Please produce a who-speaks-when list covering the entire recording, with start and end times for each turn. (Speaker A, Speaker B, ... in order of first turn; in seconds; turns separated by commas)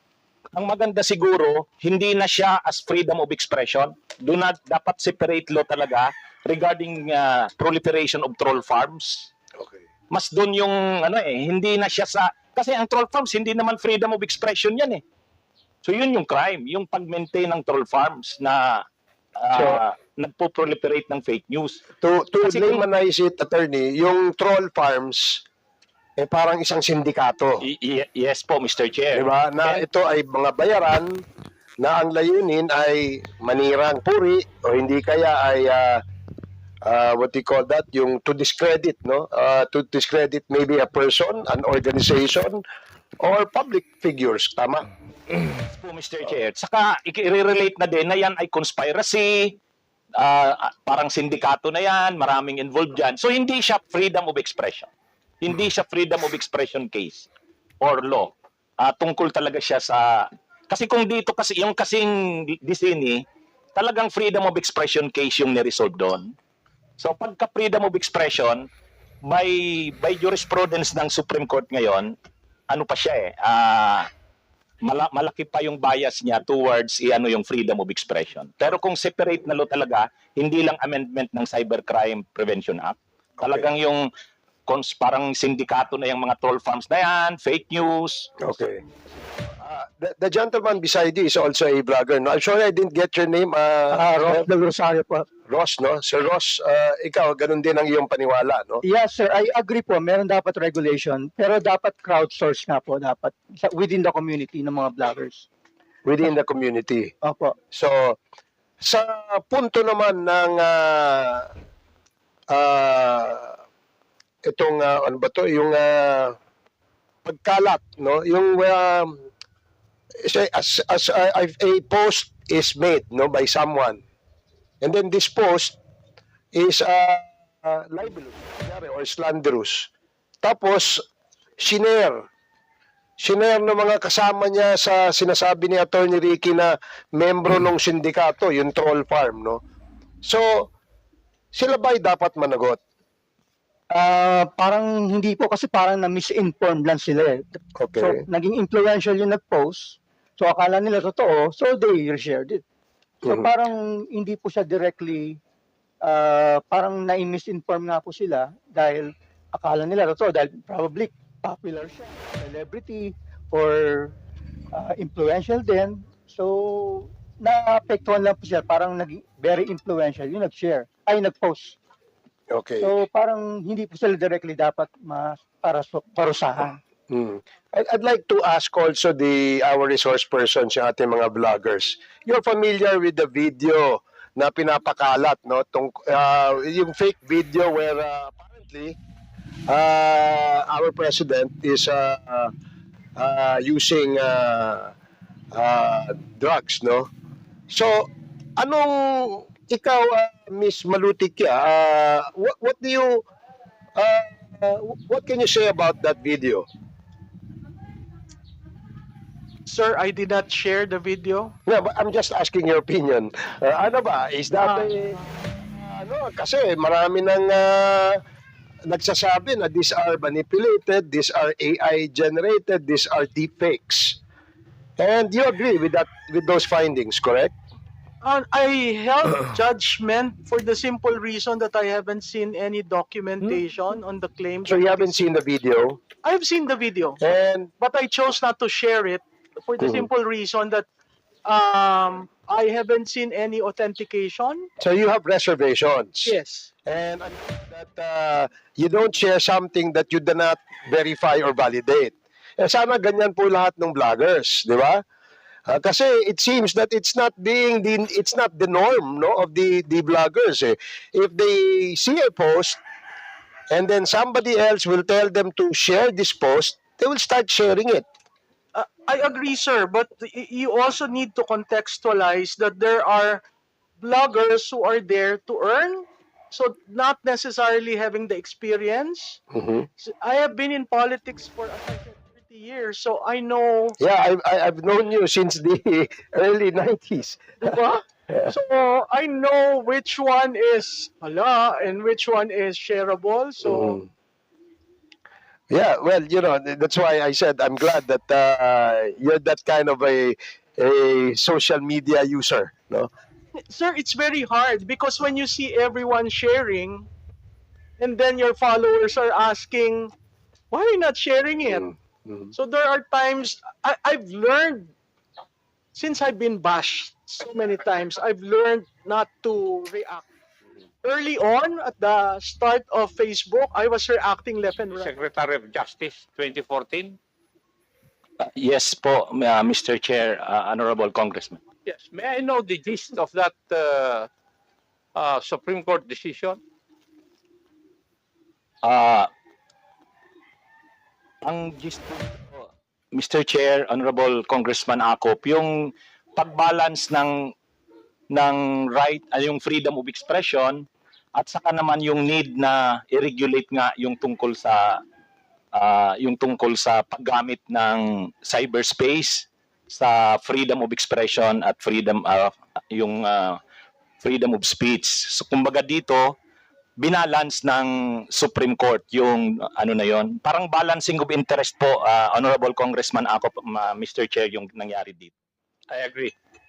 Speaker A: 0.5-9.3, Speaker B: 9.6-9.8, Speaker A: 10.1-15.0, Speaker A: 15.8-18.8, Speaker A: 19.4-21.8, Speaker B: 22.0-25.4, Speaker A: 22.4-22.9, Speaker B: 26.2-27.6, Speaker A: 27.6-29.8, Speaker B: 29.1-31.2, Speaker B: 31.8-36.0, Speaker B: 36.8-42.6, Speaker B: 43.2-44.9, Speaker A: 45.7-49.5, Speaker A: 50.2-54.9, Speaker A: 55.4-57.3, Speaker A: 57.8-60.1, Speaker A: 60.7-63.2, Speaker A: 63.8-66.3, Speaker A: 67.0-68.7, Speaker A: 69.3-72.1, Speaker A: 72.7-74.1, Speaker A: 74.8-84.0, Speaker A: 84.7-88.3, Speaker B: 88.4-88.8, Speaker B: 89.5-94.5, Speaker C: 93.9-95.2, Speaker B: 95.5-98.8, Speaker C: 98.8-105.5, Speaker B: 106.0-107.1, Speaker C: 107.2-107.5, Speaker B: 107.7-108.2, Speaker B: 108.8-111.5, Speaker B: 112.5-113.5, Speaker B: 114.5-116.3, Speaker B: 117.2-119.2, Speaker B: 120.2-124.0, Speaker B: 124.8-125.8, Speaker B: 126.5-129.9, Speaker B: 130.4-131.0, Speaker B: 131.6-132.2, Speaker B: 133.2-139.6, Speaker B: 140.2-140.7, Speaker B: 141.5-142.8, Speaker C: 143.9-147.4, Speaker B: 147.8-148.2, Speaker C: 147.9-152.6, Speaker B: 153.2-153.5, Speaker C: 153.3-155.4, Speaker C: 156.0-164.1, Speaker C: 164.7-171.8, Speaker B: 172.5-172.9, Speaker C: 172.8-176.8, Speaker B: 177.1-189.0, Speaker B: 189.7-192.5, Speaker B: 193.2-194.9, Speaker B: 195.5-197.1, Speaker B: 197.7-203.2, Speaker B: 203.9-206.7, Speaker D: 209.7-211.5, Speaker B: 211.7-218.2, Speaker D: 214.5-215.2, Speaker B: 218.8-224.2, Speaker B: 225.0-227.5, Speaker D: 228.2-235.3, Speaker B: 234.6-236.0, Speaker D: 236.2-237.2, Speaker B: 237.2-237.7, Speaker D: 237.8-240.8, Speaker B: 239.8-240.1, Speaker D: 241.4-244.7, Speaker B: 244.8-255.0, Speaker D: 246.2-246.7, Speaker B: 255.7-262.8, Speaker B: 263.7-268.1, Speaker D: 268.7-273.4, Speaker D: 274.0-279.4, Speaker B: 279.5-279.9, Speaker D: 280.0-283.9, Speaker B: 284.0-287.7, Speaker D: 287.6-294.0, Speaker B: 288.3-288.5, Speaker B: 293.6-294.1, Speaker B: 295.7-303.1, Speaker D: 303.6-307.1, Speaker D: 308.0-310.1, Speaker D: 310.7-311.9, Speaker B: 311.7-312.5, Speaker D: 312.5-314.9, Speaker D: 315.9-320.2, Speaker D: 321.0-325.1, Speaker E: 324.9-327.2, Speaker A: 328.4-331.6, Speaker E: 331.8-334.3, Speaker E: 335.1-336.6, Speaker A: 338.8-339.3, Speaker A: 341.4-345.7, Speaker A: 346.4-347.5, Speaker A: 348.3-355.0, Speaker A: 355.7-363.6, Speaker A: 364.2-366.3, Speaker A: 367.0-375.3, Speaker E: 375.9-376.3